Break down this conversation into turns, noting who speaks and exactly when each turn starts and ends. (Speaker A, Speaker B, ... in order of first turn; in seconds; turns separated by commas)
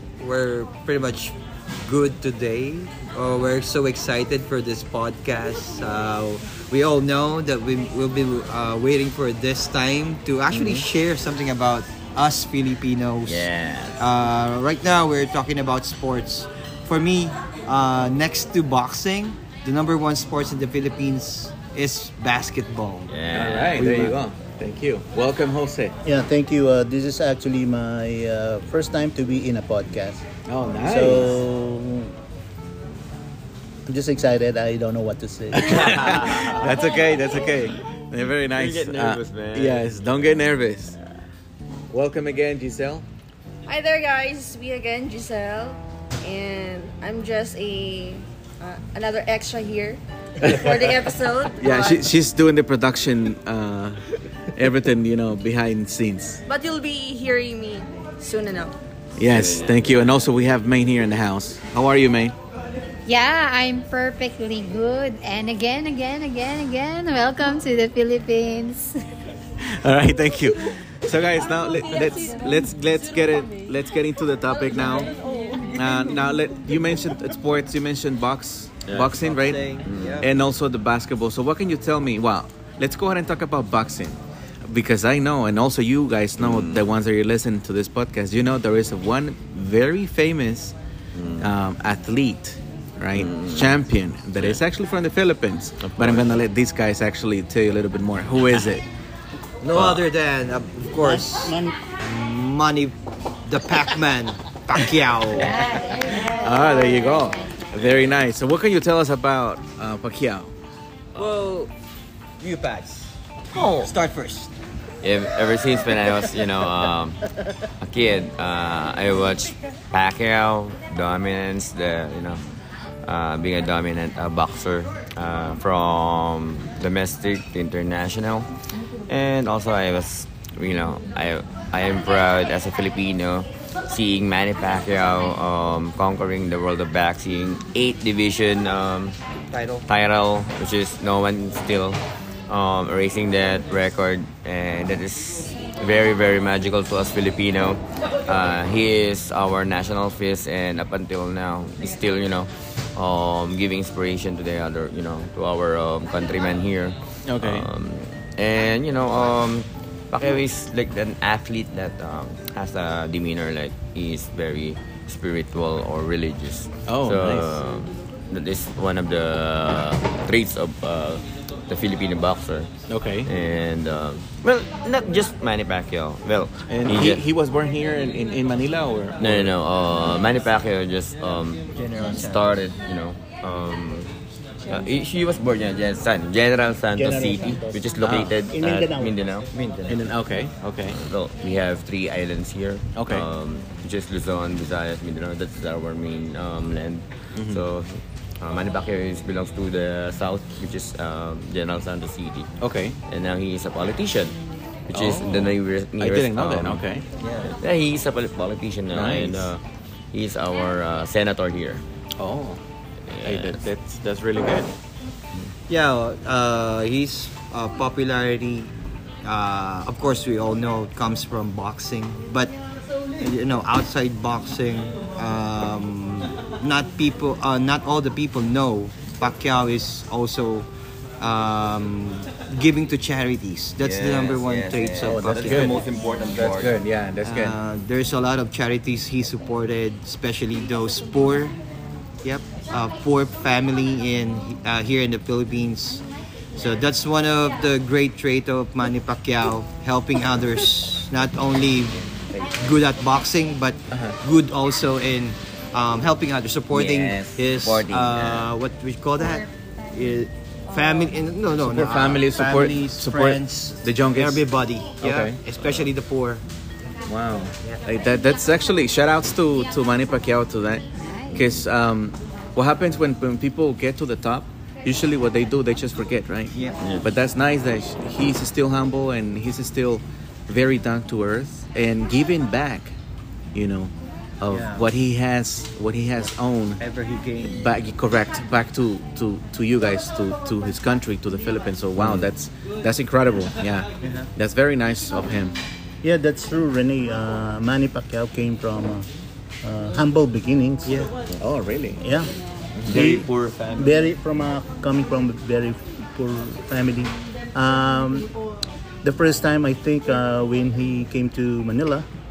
Speaker A: 0.2-23.1, Speaker B: 10.5-10.9, Speaker B: 13.3-14.1, Speaker B: 23.1-24.2, Speaker C: 23.3-26.0, Speaker D: 26.1-30.3, Speaker C: 30.5-31.4, Speaker D: 30.8-32.1, Speaker D: 33.9-36.4, Speaker C: 35.5-40.9, Speaker B: 35.6-36.7, Speaker B: 38.5-40.4, Speaker C: 41.9-43.0, Speaker E: 43.7-52.1, Speaker C: 51.6-54.0, Speaker C: 54.5-56.4, Speaker E: 56.5-58.8, Speaker C: 59.2-62.4, Speaker B: 59.3-59.9, Speaker F: 63.1-69.0, Speaker C: 69.6-75.1, Speaker E: 71.4-73.8, Speaker E: 74.5-75.8, Speaker C: 75.7-90.8, Speaker B: 78.9-79.1, Speaker A: 79.2-80.3, Speaker B: 79.8-80.2, Speaker B: 86.4-86.8, Speaker B: 91.2-91.5, Speaker C: 91.4-98.8, Speaker B: 93.2-93.8, Speaker B: 95.8-96.4, Speaker A: 99.6-103.0, Speaker C: 99.7-100.0, Speaker D: 101.0-101.8, Speaker A: 103.5-105.6, Speaker F: 105.4-107.6, Speaker C: 106.4-110.5, Speaker B: 111.2-111.6, Speaker A: 111.2-111.7, Speaker A: 112.4-114.5, Speaker B: 113.5-113.9, Speaker B: 115.0-117.2, Speaker B: 117.8-122.4, Speaker B: 123.1-128.5, Speaker B: 129.1-139.2, Speaker A: 139.5-139.8, Speaker B: 139.9-172.7, Speaker C: 157.3-157.7, Speaker C: 166.9-167.5, Speaker C: 172.9-173.3, Speaker B: 173.3-177.2, Speaker C: 176.7-179.5, Speaker B: 179.2-184.1, Speaker A: 181.8-182.5, Speaker B: 184.7-189.5, Speaker D: 187.0-187.8, Speaker C: 188.0-188.4, Speaker D: 188.5-189.1, Speaker A: 189.5-190.0, Speaker C: 189.9-191.0, Speaker B: 190.9-202.5, Speaker C: 193.0-193.3, Speaker C: 197.3-197.7, Speaker C: 202.6-203.0, Speaker B: 203.1-204.4, Speaker B: 204.9-206.8, Speaker C: 204.9-207.0, Speaker A: 207.2-207.5, Speaker B: 207.4-211.8, Speaker C: 208.9-209.5, Speaker C: 212.2-212.6, Speaker B: 213.1-213.6, Speaker C: 213.2-214.7, Speaker A: 215.7-218.7, Speaker A: 219.2-222.6, Speaker A: 223.2-230.7, Speaker A: 231.2-235.8, Speaker B: 233.8-236.8, Speaker D: 235.0-235.8, Speaker C: 235.5-237.6, Speaker A: 237.2-241.6, Speaker A: 242.2-252.0, Speaker B: 252.0-252.8, Speaker A: 252.6-266.4, Speaker B: 256.7-258.5, Speaker C: 261.6-264.4, Speaker C: 265.0-265.4, Speaker B: 265.6-265.9, Speaker C: 267.1-276.5, Speaker F: 270.9-271.4, Speaker A: 276.5-276.8, Speaker B: 276.8-277.1, Speaker C: 277.0-282.9, Speaker C: 283.5-286.8, Speaker A: 284.5-284.9, Speaker A: 286.8-287.6, Speaker C: 287.4-295.6, Speaker B: 292.0-292.3, Speaker A: 294.0-294.3, Speaker D: 296.0-299.1, Speaker D: 299.6-301.1, Speaker A: 300.9-301.1, Speaker C: 301.4-302.0, Speaker D: 302.0-302.3, Speaker C: 302.8-303.1, Speaker B: 302.9-304.1, Speaker D: 302.9-308.3, Speaker D: 309.0-312.1